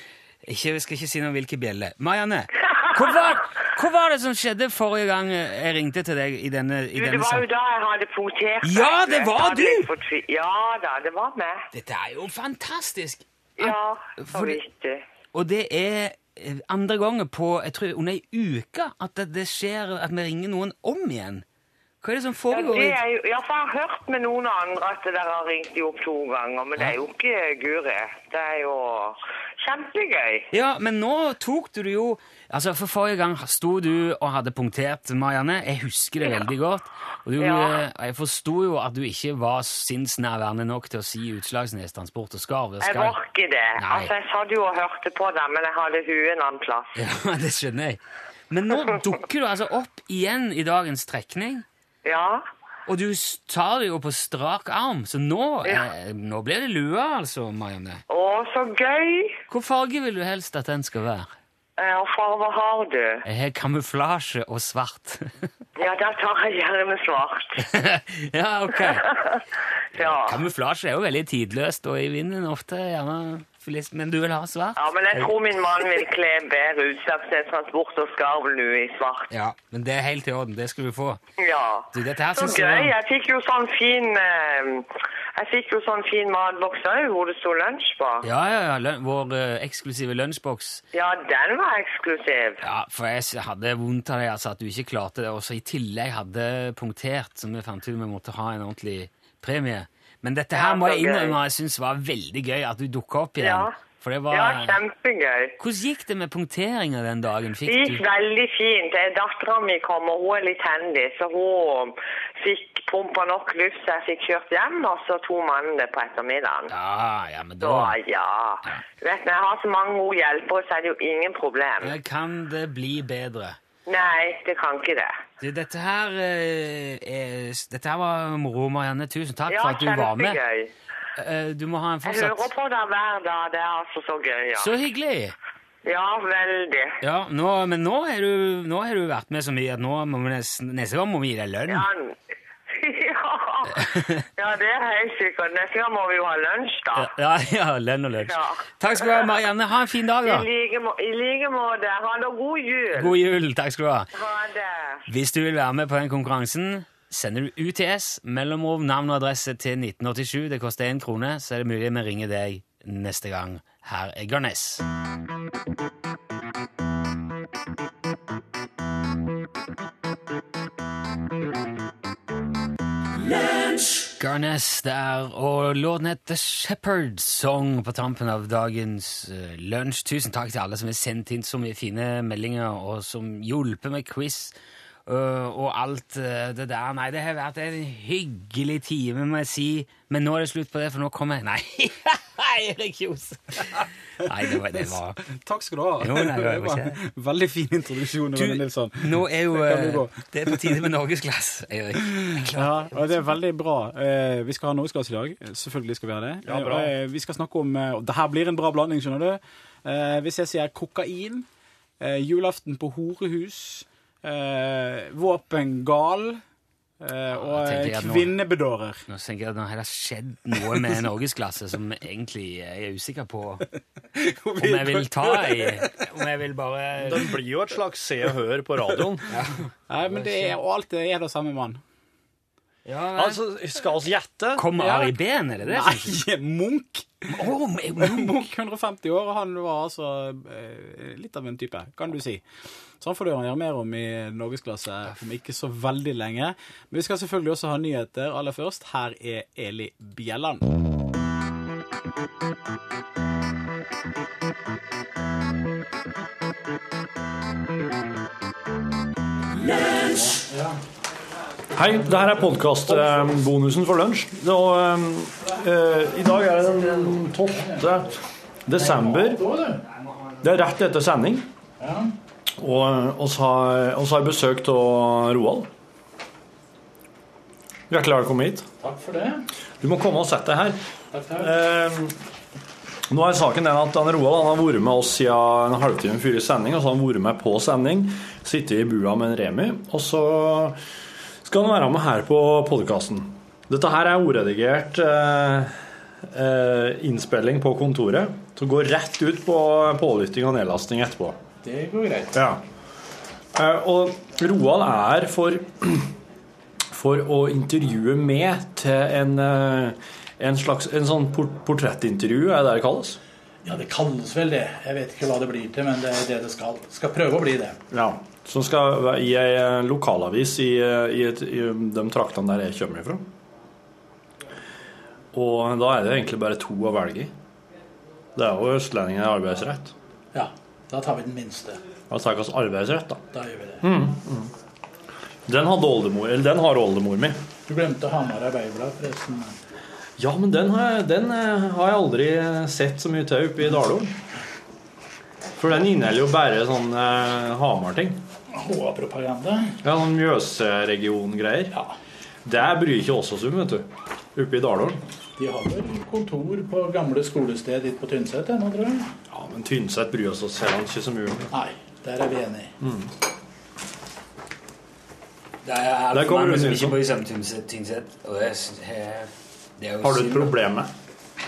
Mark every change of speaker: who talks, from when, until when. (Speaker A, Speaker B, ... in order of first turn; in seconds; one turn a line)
Speaker A: 0.4-7.5
Speaker B: 6.9-11.7
Speaker A: 8.6-9.9
Speaker A: 11.7-14.6
Speaker B: 13.6-15.0
Speaker A: 15.3-21.4
Speaker A: 22.0-23.0
Speaker B: 22.5-30.5
Speaker A: 30.5-43.2
Speaker B: 37.4-37.8
Speaker B: 42.8-47.0
Speaker A: 43.8-44.1
Speaker A: 47.0-51.6
Speaker B: 52.0-52.5
Speaker A: 52.9-58.0
Speaker B: 58.1-59.4
Speaker A: 59.5-61.3
Speaker B: 61.8-63.2
Speaker A: 63.2-65.5
Speaker B: 65.8-67.6
Speaker A: 67.6-69.0
Speaker B: 68.8-69.4
Speaker A: 70.0-75.3
Speaker B: 70.0-70.4
Speaker B: 74.8-79.3
Speaker A: 79.3-81.2
Speaker B: 81.4-88.3
Speaker A: 81.9-82.9
Speaker A: 88.2-90.8
Speaker B: 90.9-92.6
Speaker A: 92.6-104.8
Speaker B: 100.5-101.4
Speaker B: 103.4-103.8
Speaker B: 104.3-105.5
Speaker A: 105.6-108.0
Speaker B: 107.7-116.7
Speaker A: 116.7-118.0
Speaker B: 117.6-122.0
Speaker A: 121.8-123.6
Speaker B: 123.9-125.1
Speaker A: 125.4-130.4
Speaker B: 129.5-130.7
Speaker A: 131.2-132.5
Speaker B: 132.1-134.7
Speaker A: 134.6-135.3
Speaker B: 135.8-137.0
Speaker A: 137.0-141.9
Speaker B: 141.7-142.2
Speaker B: 142.8-147.1
Speaker A: 143.7-144.2
Speaker A: 146.9-150.5
Speaker B: 148.2-149.3
Speaker B: 150.2-153.2
Speaker A: 152.9-154.1
Speaker B: 154.1-155.0
Speaker A: 155.1-164.8
Speaker A: 174.2-184.5
Speaker A: 185.1-195.2
Speaker C: 194.5-200.8
Speaker A: 196.0-197.0
Speaker A: 198.3-203.3
Speaker C: 202.1-211.5
Speaker D: 206.4-206.9
Speaker C: 212.0-216.4
Speaker C: 217.0-219.0
Speaker A: 217.3-218.4
Speaker A: 219.1-223.7
Speaker C: 224.1-226.1
Speaker A: 224.6-227.3
Speaker D: 227.1-229.3
Speaker A: 229.3-230.6
Speaker C: 229.9-231.8
Speaker A: 232.9-233.4
Speaker D: 233.2-234.7
Speaker A: 234.6-236.2
Speaker C: 234.8-237.3
Speaker A: 237.3-238.5
Speaker C: 238.0-242.4
Speaker C: 243.0-250.7
Speaker D: 259.9-260.3
Speaker E: 260.5-260.8
Speaker D: 261.7-269.4
Speaker A: 266.9-267.2
Speaker E: 267.5-267.9
Speaker E: 268.8-269.8
Speaker A: 269.9-270.5
Speaker D: 270.4-271.5
Speaker E: 271.8-272.1
Speaker D: 272.6-275.7
Speaker D: 277.9-278.7
Speaker E: 278.8-279.4
Speaker D: 279.8-280.8
Speaker E: 281.1-281.5
Speaker D: 281.4-282.2
Speaker D: 283.1-290.8
Speaker D: 291.4-301.4
Speaker E: 301.6-302.5
Speaker D: 302.3-302.6
Speaker D: 303.6-306.1
Speaker D: 306.9-313.2
Speaker E: 313.6-317.8
Speaker D: 317.9-323.3
Speaker D: 325.3-327.3
Speaker D: 328.4-329.9
Speaker E: 330.3-331.8
Speaker D: 332.1-333.2
Speaker E: 333.3-333.9
Speaker D: 333.8-334.5
Speaker D: 335.5-337.4
Speaker E: 337.7-339.6
Speaker D: 340.2-344.1
Speaker D: 345.6-348.2
Speaker E: 348.5-349.8
Speaker D: 349.8-351.8
Speaker D: 352.4-355.0
Speaker E: 355.4-359.1
Speaker D: 359.3-361.5
Speaker E: 361.5-362.7
Speaker D: 362.8-363.1
Speaker A: 365.6-370.6
Speaker D: 366.1-367.0
Speaker D: 370.0-370.9